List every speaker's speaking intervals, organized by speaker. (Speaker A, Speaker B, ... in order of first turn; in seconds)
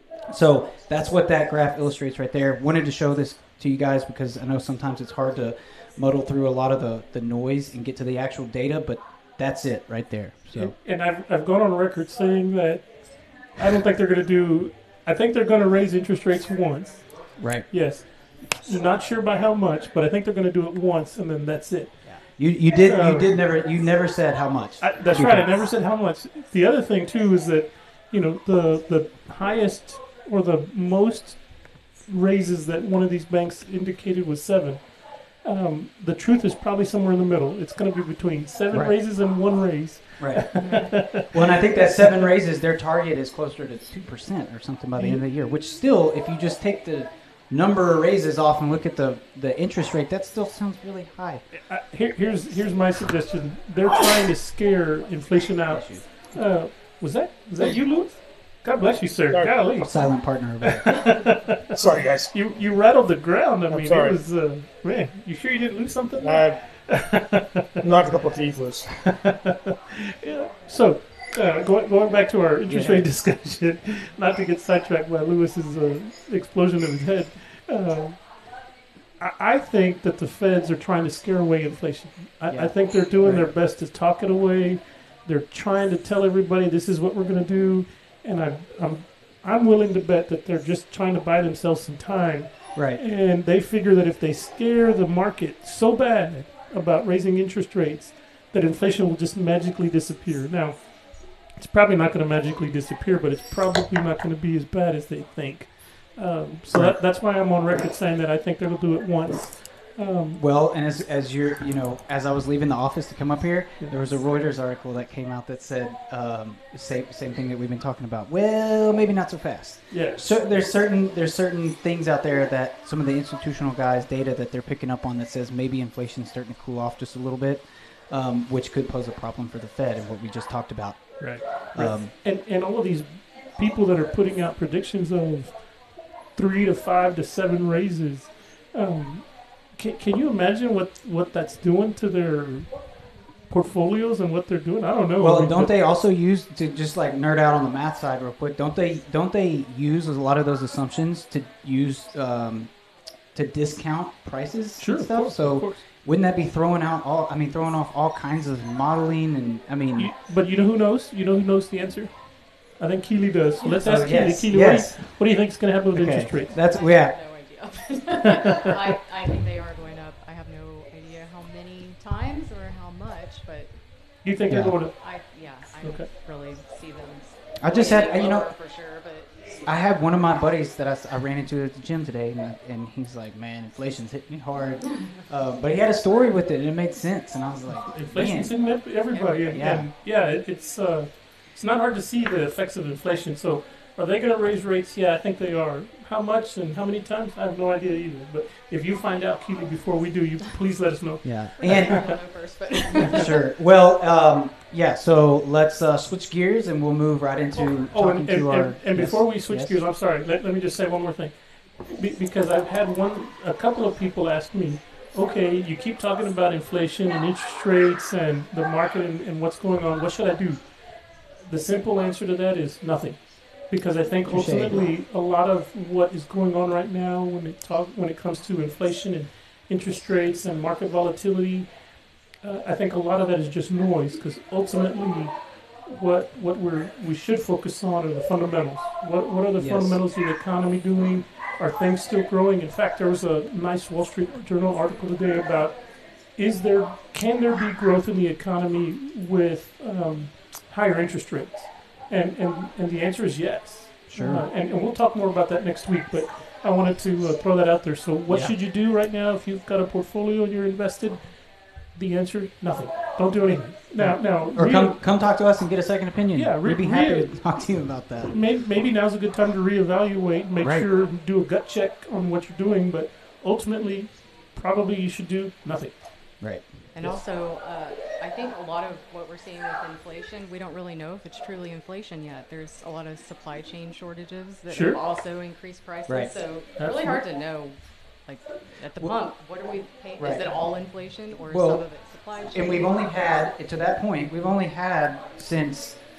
Speaker A: 0.3-10.8, 17.4-17.7, 22.0-25.5, 40.2-51.5, 55.7-56.1, 59.8-61.1, 72.7-73.0, 82.5-83.5, 92.7-93.0, 106.7-107.0, 110.3-132.1, 145.2-152.8, 153.3-160.1, 163.8-167.2, 174.5-174.8, 177.6-178.5, 179.6-188.8, 189.5-189.9, 201.2-202.1, 203.0-209.8, 224.3-224.8, 239.6-240.0, 254.1-254.4, 258.3-258.6, 264.0-268.4, 270.6-270.9, 276.4-277.2, 286.1-286.3, 290.2-290.5, 291.5-296.1
Speaker B: 10.5-23.3, 24.8-42.0, 45.0-45.2, 51.5-67.8, 69.1-78.6, 79.2-110.4, 119.9-120.3, 131.2-145.7, 154.8-155.8, 159.9-166.5, 174.2-176.1, 187.8-202.0, 207.6-265.0, 266.3-276.3, 284.7-285.0, 286.8-287.2
Speaker C: 40.6-41.0, 166.5-174.2, 174.9-179.7, 189.1-189.6, 201.6-203.3, 276.9-292.9
Speaker D: 59.3-59.6, 61.7-62.3, 63.7-64.2, 66.2-67.1, 67.8-69.3